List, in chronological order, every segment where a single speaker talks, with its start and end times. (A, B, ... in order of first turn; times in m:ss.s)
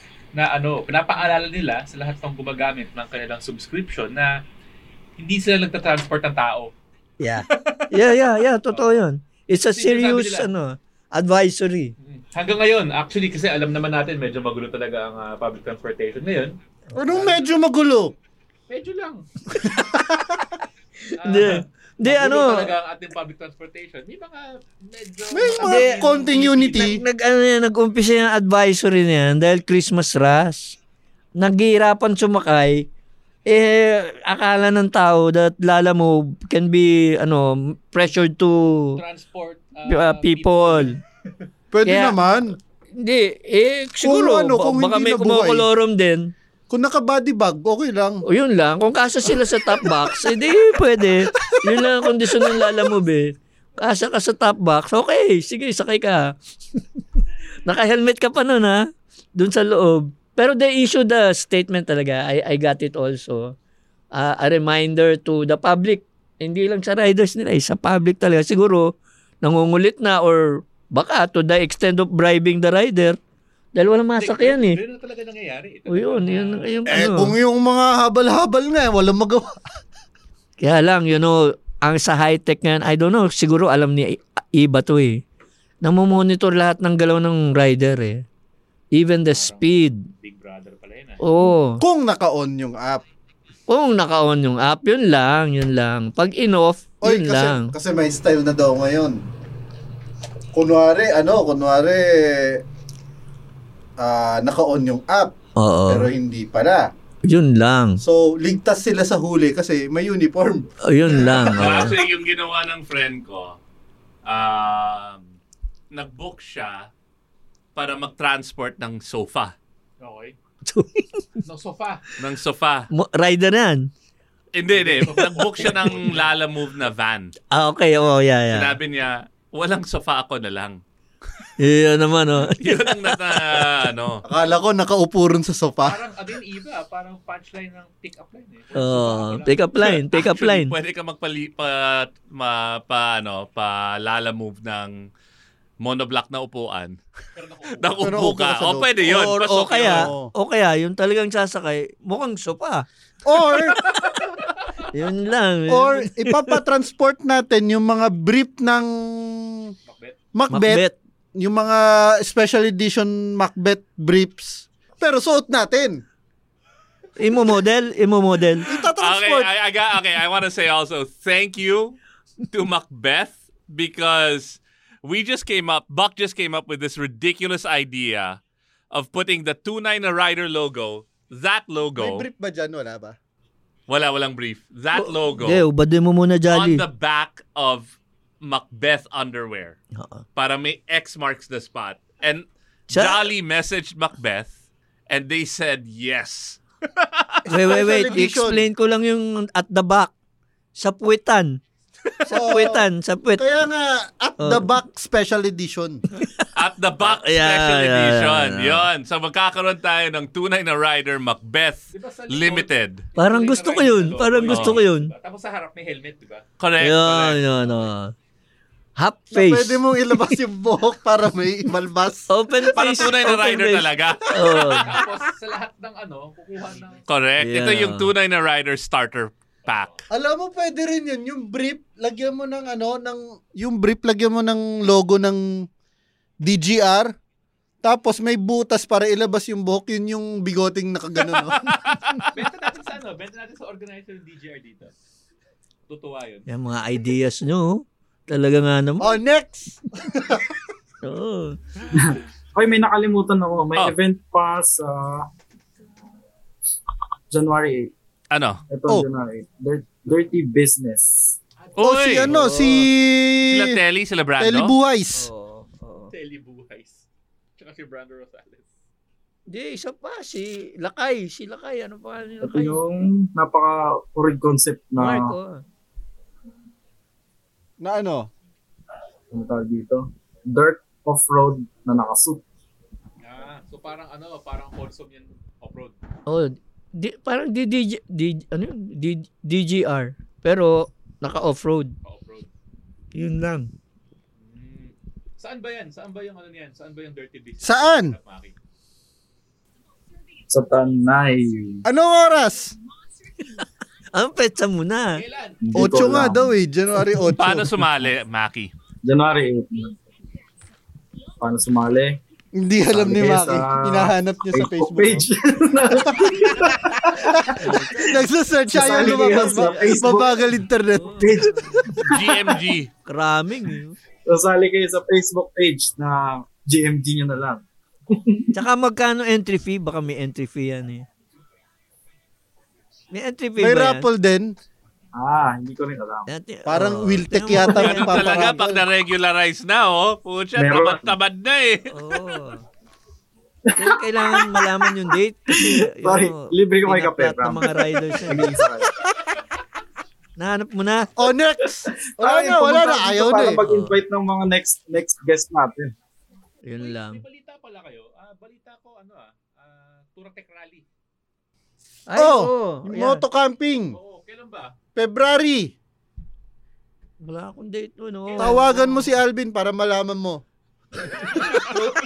0:00.3-0:04.3 A
0:05.2-0:06.7 A
0:07.2-0:11.9 B
0:07.5-0:07.9 A
0:08.7-0:09.0 A
0:09.7-0:10.5 A
0:12.0-0:16.6 A
0:16.9-0:17.3 B
0:17.0-0:18.1 C
0:18.7-0:19.2 A
0:19.9-0:20.3 C
0:21.2-0:27.0 A
0:21.2-0:22.7 B
0:25.3-0:27.0 C
0:25.6-0:26.0 B
0:26.7-0:30.8 B
0:31.4-0:32.9 B
0:33.5-0:39.0 B
0:38.9-0:41.0 A
0:39.9-0:41.0 B
0:41.7-0:42.6 C
0:41.8-0:42.2 B
0:42.9-0:46.3 B
0:44.0-0:45.6 C
0:46.7-0:48.2 C
0:48.2-0:56.8 B
0:51.7-0:52.7 C
0:57.6-0:58.8 B
0:59.4-1:03.5 B
1:04.2-1:08.9 B
1:09.4-1:13.2 B
1:13.7-1:14.8 B
1:14.2-1:16.7 A
1:15.9-1:17.3 B
1:16.9-1:19.5 C
1:20.6-1:25.2 B
1:25.8-1:28.2 B
1:29.0-1:30.0 B
1:29.3-1:31.2 A
1:31.2-1:31.8 B
1:31.8-1:33.0 C
1:33.7-1:37.7 B
1:37.0-1:39.2 C
1:40.5-1:42.6 C
1:44.0-1:45.4 C
1:45.6-1:46.1 B
1:45.9-1:46.9 C
1:47.3-1:48.0 B
1:48.0-1:51.8 C
1:50.8-1:52.0 B
1:51.5-1:53.6 D
1:54.2-1:55.3 D
1:55.9-1:56.9 D
1:57.7-1:59.5 D
2:00.0-2:00.3 A
2:00.7-2:01.4 B
2:01.4-2:02.0 A
2:02.2-2:02.9 D
2:02.9-2:03.9 B
2:04.5-2:07.3 D
2:04.8-2:06.3 A
2:05.0-2:05.7 B
2:07.5-2:08.8 B
2:08.5-2:10.8 D
2:11.6-2:13.7 B
2:12.6-2:14.2 D
2:14.2-2:16.0 C
2:15.8-2:20.0 A
2:18.7-2:20.7 B
2:20.1-2:25.1 D
2:25.8-2:27.0 D
2:27.3-2:28.2 A
2:27.7-2:30.1 D
2:28.0-2:30.3 C
2:29.5-2:32.8 B
2:33.2-2:33.8 C
2:34.9-2:36.6 B
2:35.7-2:39.7 C
2:39.8-2:40.2 A
2:40.3-2:40.8 C
2:40.5-2:40.9 B
2:41.4-2:46.0 C
2:47.2-2:48.6 B
2:48.7-2:49.5 C
2:49.0-2:52.0 D
2:52.5-2:58.4 D
2:58.9-3:02.3 D
3:02.0-3:03.2 C
3:03.9-3:05.6 D
3:04.9-3:06.8 B
3:06.5-3:09.8 D
3:10.0-3:10.2 B
3:10.4-3:14.5 D
3:12.9-3:13.3 B
3:15.1-3:17.4 D
3:17.5-3:20.1 B
3:17.5-3:18.6 C
3:20.8-3:21.6 B
3:22.3-3:23.4 B
3:22.3-3:26.0 C
3:24.4-3:24.7 B
3:26.2-3:26.5 B
3:26.5-3:33.0 D
3:27.0-3:28.9 B
3:31.9-3:37.9 A
3:33.2-3:35.1 B
3:34.5-3:34.8 D
3:36.6-3:37.4 D
3:36.8-3:38.1 B
3:39.0-3:40.4 B
3:39.3-3:42.3 C
3:42.3-3:44.9 B
3:42.7-3:45.0 D
3:44.8-3:47.3 A
3:47.0-3:50.0 D
3:47.4-3:48.1 B
3:49.6-3:50.0 A
3:50.1-3:55.6 C
3:56.4-3:57.1 C
3:57.8-4:01.7 C
4:01.7-4:02.0 D
4:02.3-4:04.9 A
4:05.9-4:06.5 A
4:06.5-4:09.2 B
4:09.0-4:10.4 C
4:11.0-4:11.6 B
4:11.9-4:15.2 E
4:17.3-4:17.9 E
4:18.3-4:18.6 D
4:18.7-4:21.4 E
4:21.6-4:22.0 A
4:21.8-4:22.3 D
4:21.8-4:23.8 C
4:22.2-4:22.9 B
4:23.4-4:24.7 D
4:24.4-4:25.3 C
4:25.2-4:26.1 B
4:26.1-4:27.0 A
4:27.6-4:28.8 A
4:29.5-4:32.8 B
4:32.4-4:35.4 E
4:35.0-4:35.6 B
4:37.8-4:38.3 C
4:39.3-4:42.4 E
4:43.2-4:46.0 A
4:46.3-4:51.9 B
4:52.0-4:52.5 A
4:53.1-4:53.7 B
4:54.4-4:58.5 A
4:57.6-4:58.2 C
5:00.5-5:01.8 E
5:01.8-5:02.7 C
5:03.5-5:05.2 B
5:05.1-5:06.1 A
5:05.6-5:06.5 E
5:05.7-5:07.8 C
5:07.3-5:08.7 D
5:09.0-5:10.0 E
5:11.4-5:12.2 E
5:12.5-5:16.3 C
5:12.9-5:17.2 E
5:17.1-5:21.4 C
5:17.6-5:20.3 B
5:17.8-5:18.1 E
5:18.7-5:20.4 E
5:20.9-5:22.0 B
5:21.2-5:22.6 E
5:22.0-5:22.9 D
5:23.0-5:24.0 B
5:24.2-5:28.5 E
5:28.5-5:31.0 B
5:33.1-5:34.1 B
5:33.6-5:34.5 C
5:35.1-5:36.3 E
5:36.3-5:38.4 B
5:36.7-5:38.8 C
5:37.7-5:41.9 D
5:40.5-5:41.1 E
5:41.9-5:42.6 B
5:43.7-5:48.9 E
5:43.8-5:48.6 B
5:50.4-5:51.1 B
5:51.2-5:53.6 C
5:51.8-5:55.9 E
5:53.6-5:54.0 B
5:56.6-5:57.2 B
5:56.8-6:00.8 A
6:02.1-6:03.2 B
6:02.2-6:04.0 C
6:03.9-6:04.7 A
6:04.9-6:05.7 C
6:07.2-6:09.2 B
6:08.2-6:08.8 A
6:08.4-6:10.4 C
6:11.1-6:11.8 B
6:11.2-6:11.7 A